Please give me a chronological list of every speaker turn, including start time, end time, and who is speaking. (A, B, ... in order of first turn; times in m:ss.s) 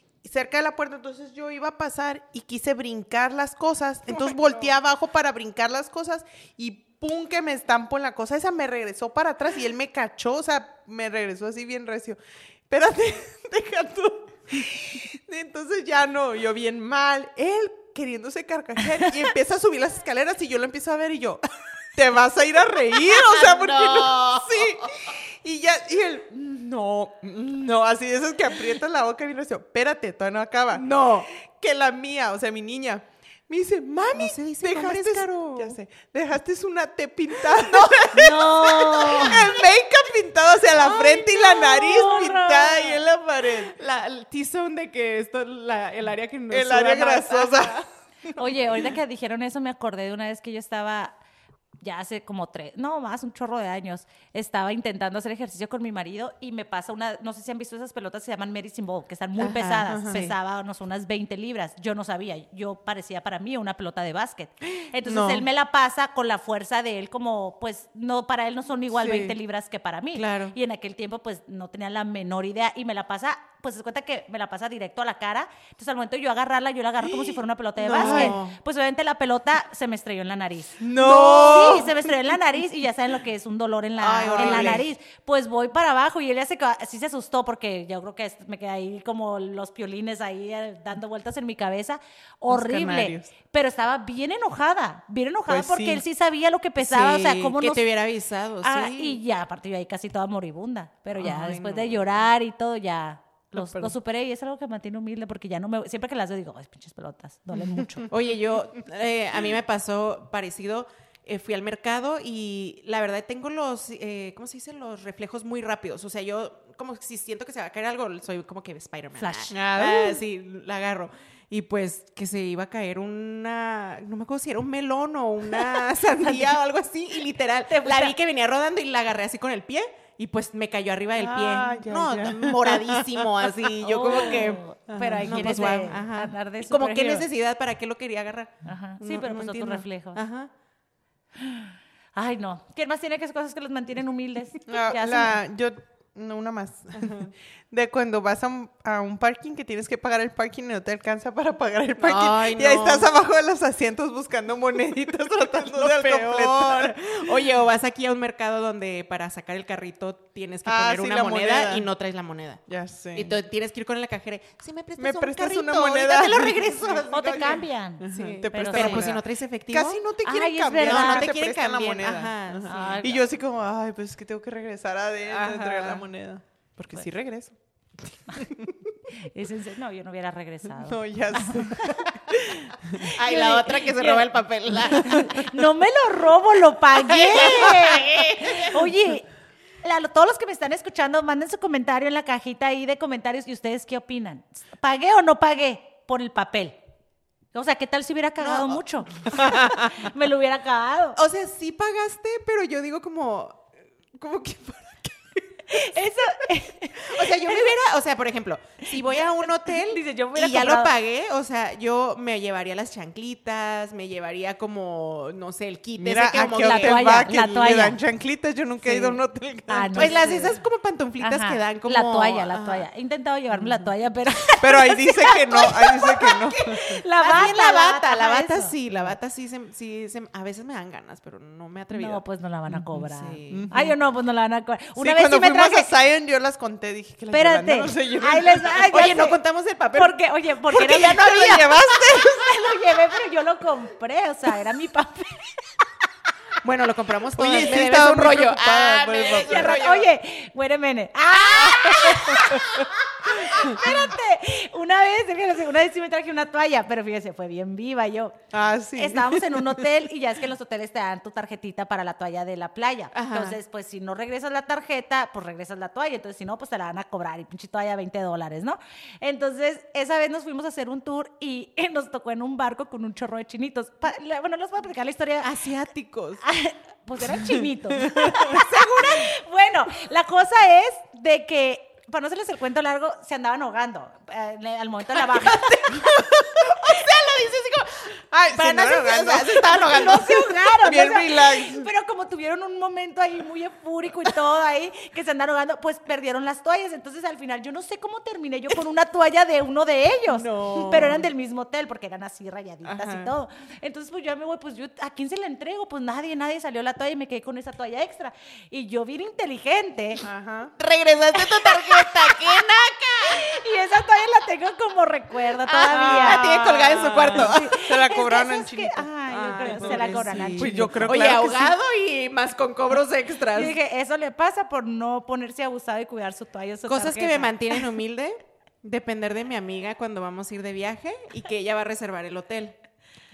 0:00.2-0:12.2 A
0:04.1-0:04.7 B
0:12.7-0:21.4 A
0:21.9-0:30.8 A
0:22.9-0:25.1 B
0:30.7-0:31.3 B
0:31.6-0:43.7 A
0:34.1-0:35.8 B
0:37.5-0:38.3 B
0:38.1-0:39.5 C
0:40.8-0:41.4 B
0:41.4-0:43.0 C
0:43.6-0:47.9 B
0:46.5-0:47.8 A
0:48.4-0:51.1 C
0:51.8-1:37.8 C
0:59.4-1:00.3 B
0:59.9-1:00.2 A
1:05.0-1:05.4 A
1:09.0-1:09.4 B
1:10.1-1:10.5 B
1:17.8-1:18.6 B
1:17.9-1:18.4 A
1:20.8-1:22.1 A
1:24.0-1:24.8 A
1:24.1-1:24.8 B
1:32.5-1:33.3 A
1:35.5-1:36.0 A
1:36.8-1:39.2 B
1:38.6-1:48.1 C
1:41.2-1:41.9 B
1:43.5-1:44.0 A
1:48.1-2:20.5 B
1:59.2-1:59.5 C
1:59.5-2:00.2 A
2:07.7-2:08.1 C
2:11.2-2:15.6 A
2:13.8-2:17.3 C
2:18.6-2:20.2 C
2:21.4-2:25.4 C
2:24.7-2:37.3 A
2:27.0-2:27.3 B
2:32.0-2:33.1 B
2:35.5-2:42.6 B
2:40.6-2:41.9 A
2:42.7-2:43.4 A
2:43.1-2:50.0 B
2:45.0-2:47.0 A
2:47.1-2:49.1 C
2:48.0-2:57.2 A
2:50.2-2:51.3 C
2:50.8-2:53.0 B
2:52.7-2:53.2 C
2:55.3-2:56.0 B
2:56.8-2:57.5 B
2:58.3-2:58.7 B
2:59.2-3:02.0 C
3:00.8-3:03.0 A
3:03.0-3:09.3 C
3:03.1-3:05.2 B
3:07.0-3:08.8 B
3:09.8-3:16.8 C
3:17.5-3:21.2 C
3:18.4-3:20.0 B
3:21.2-3:26.1 B
3:25.7-3:27.7 C
3:27.0-3:37.8 B
3:29.0-3:30.9 C
3:36.0-3:40.2 A
3:36.6-3:38.0 C
3:38.8-3:39.2 B
3:39.7-3:40.5 C
3:39.9-3:42.9 B
3:41.2-3:48.7 C
3:44.6-3:47.0 A
3:46.7-3:52.2 B
3:51.9-3:55.9 C
3:53.0-3:53.7 B
3:53.5-3:53.9 A
3:55.0-3:58.5 A
3:57.3-3:59.4 C
3:58.2-4:00.2 B
3:59.9-4:05.6 C
4:00.7-4:02.8 A
4:00.7-4:01.5 B
4:06.6-4:10.1 B
4:07.4-4:10.0 A
4:09.3-4:18.4 C
4:11.6-4:12.8 B
4:12.3-4:12.6 A
4:18.5-4:19.8 A
4:18.9-4:35.5 C
4:23.1-4:23.6 B
4:35.4-4:36.4 B
4:36.4-4:46.2 C
4:38.4-4:39.3 B
4:45.2-4:50.7 B
4:48.3-4:49.7 A
4:49.6-5:10.2 C
4:50.8-4:51.9 A
5:00.3-5:01.3 B
5:02.8-5:03.3 B
5:10.2-5:10.7 A
5:10.8-5:13.6 B
5:11.4-5:12.6 C
5:13.2-5:21.2 C
5:15.6-5:17.8 B
5:16.0-5:21.8 A
5:19.3-5:23.8 B
5:23.5-5:27.8 C
5:26.9-5:32.8 B